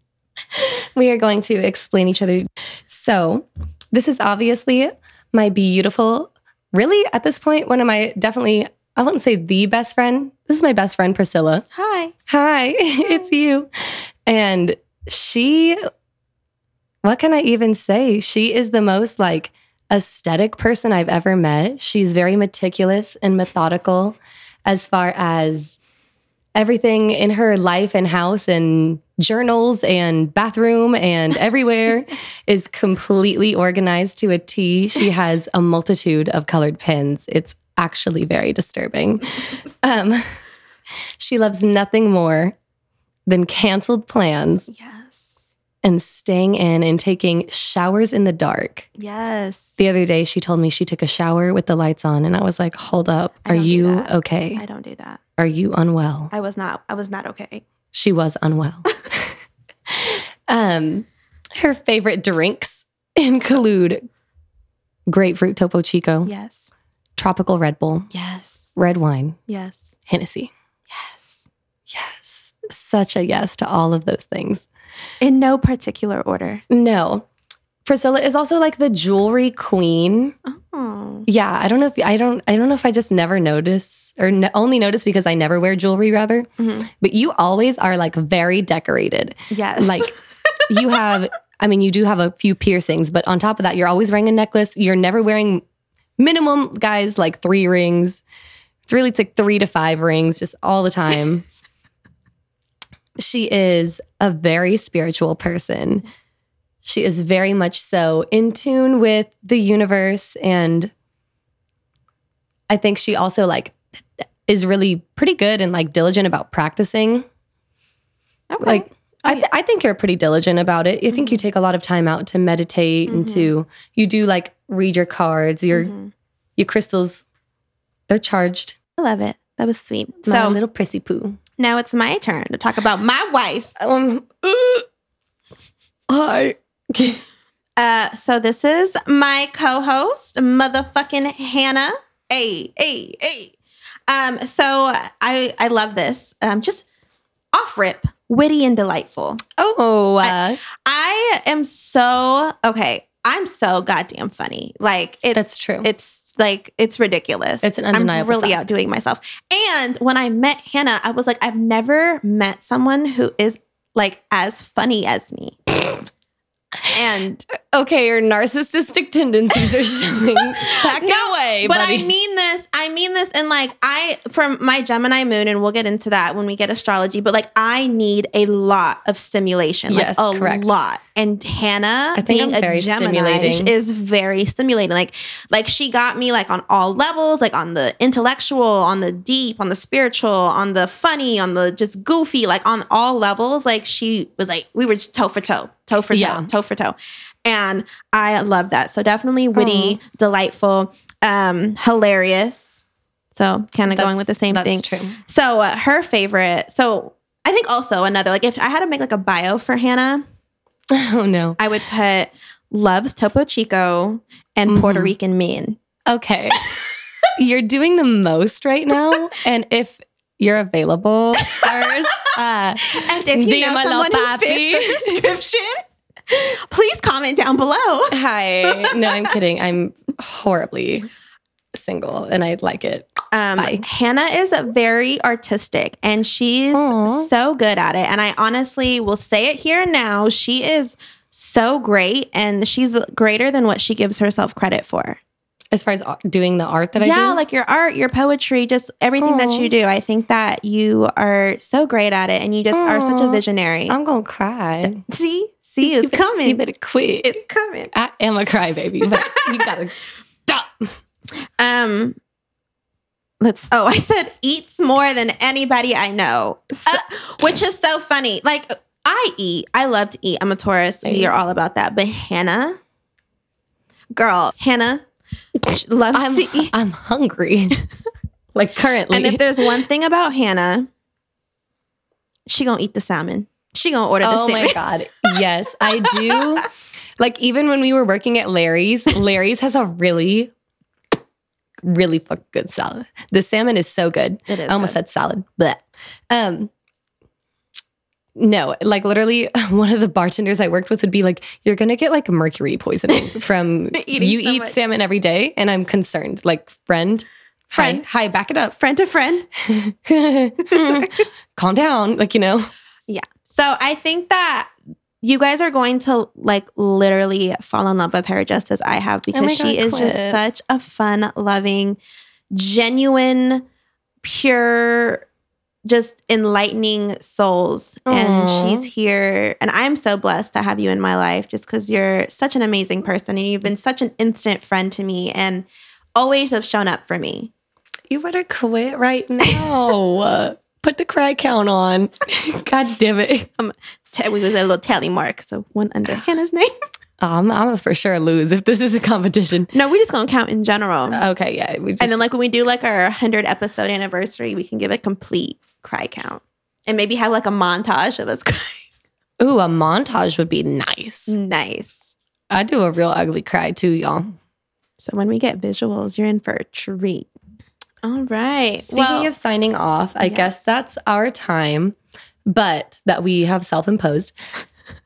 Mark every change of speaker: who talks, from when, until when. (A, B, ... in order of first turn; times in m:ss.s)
0:00.5-0:11.6 A
0:11.7-0:12.1 B
0:12.3-0:13.7 A
0:14.2-0:15.8 A
0:17.0-0:25.8 A
0:26.6-0:39.3 A
0:39.8-0:40.2 A
0:41.2-0:42.5 A
0:43.3-0:44.7 A
0:44.7-0:45.4 B
0:45.8-0:48.9 A
0:49.0-0:49.8 B
0:49.8-0:54.6 A
0:53.4-0:55.2 B
0:55.4-0:56.3 A
0:56.3-0:57.6 B
0:57.9-0:59.2 A
0:59.9-1:04.0 A
1:05.1-1:06.3 A
1:06.2-1:06.7 B
1:07.2-1:08.1 A
1:08.1-1:08.7 B
1:08.8-1:09.4 A
1:09.5-1:09.9 B
1:10.1-1:10.5 A
1:10.9-1:11.4 B
1:11.9-1:14.6 A
1:15.2-1:16.6 B
1:16.7-1:17.2 A
1:17.8-1:20.4 A
1:20.4-1:21.3 B
1:21.3-1:26.5 A
1:26.6-1:26.9 B
1:27.0-1:30.1 A
1:29.5-1:30.1 B
1:30.7-1:35.6 A
1:36.2-1:38.2 A
1:38.9-1:41.4 A
1:43.2-1:46.0 A
1:46.8-1:50.9 A
1:52.7-1:57.2 A
1:58.5-1:59.5 B
1:58.6-2:05.9 A
2:01.1-2:01.4 B
2:03.1-2:03.5 B
2:05.7-2:06.1 B
2:06.6-2:07.2 A
2:08.1-2:08.8 A
2:09.0-2:10.6 B
2:10.2-2:11.4 A
2:11.6-2:13.7 B
2:13.8-2:14.9 A
2:16.1-2:17.2 A
2:17.8-2:23.5 B
2:24.1-2:26.9 B
2:27.5-2:29.4 B
2:29.6-2:30.6 A
2:30.2-2:45.6 B
2:35.3-2:35.9 A
2:37.6-2:38.7 A
2:46.9-2:47.4 B
2:47.6-2:52.1 A
2:50.7-3:22.8 B
2:59.9-3:00.7 A
3:02.2-3:03.7 A
3:16.1-3:16.5 A
3:19.5-3:20.0 A
3:23.3-3:30.2 B
3:23.9-3:25.2 A
3:30.9-3:31.6 A
3:31.6-3:35.8 B
3:34.7-3:35.1 A
3:36.1-3:36.6 A
3:37.4-3:45.3 A
3:43.0-3:49.2 B
3:48.1-3:51.1 A
3:51.7-3:53.8 A
3:53.3-4:05.2 B
3:56.7-3:57.3 A
4:05.7-4:07.4 A
4:07.0-4:13.9 B
4:09.2-4:09.7 A
4:12.7-4:15.0 A
4:15.1-4:16.6 B
4:15.8-4:17.4 A
4:17.2-4:17.9 B
4:17.9-4:20.8 A
4:19.1-4:19.7 B
4:21.6-4:22.2 B
4:23.4-4:32.8 B
4:31.0-4:31.3 A
4:34.1-4:35.0 B
4:35.6-4:36.7 B
4:36.1-4:37.8 A
4:38.6-4:39.4 A
4:39.1-4:40.9 B
4:42.5-4:44.8 B
4:44.2-4:46.6 A
4:47.2-4:50.5 A
4:51.8-4:56.7 A
4:54.5-4:55.0 B
4:58.4-5:08.8 A
5:03.9-5:05.0 B
5:07.7-5:08.0 B
5:08.8-5:09.5 B
5:09.6-5:12.7 A
5:10.7-5:11.2 B
5:13.1-5:22.0 B
5:19.3-5:20.4 A
5:22.5-5:23.6 B
5:24.2-5:25.2 B
5:25.9-5:37.5 B
5:28.1-5:28.9 A
5:38.1-5:43.5 A
5:43.6-5:46.7 B
5:47.2-5:49.7 A
5:49.7-5:51.2 B
5:51.1-5:52.1 A
5:52.0-5:58.9 B
5:59.4-6:01.3 A
6:01.3-6:02.1 B
6:02.5-6:04.3 A
6:05.0-6:07.3 B
6:08.0-6:09.3 B
6:08.9-6:11.9 A
6:10.2-6:10.7 B
6:12.5-6:14.4 A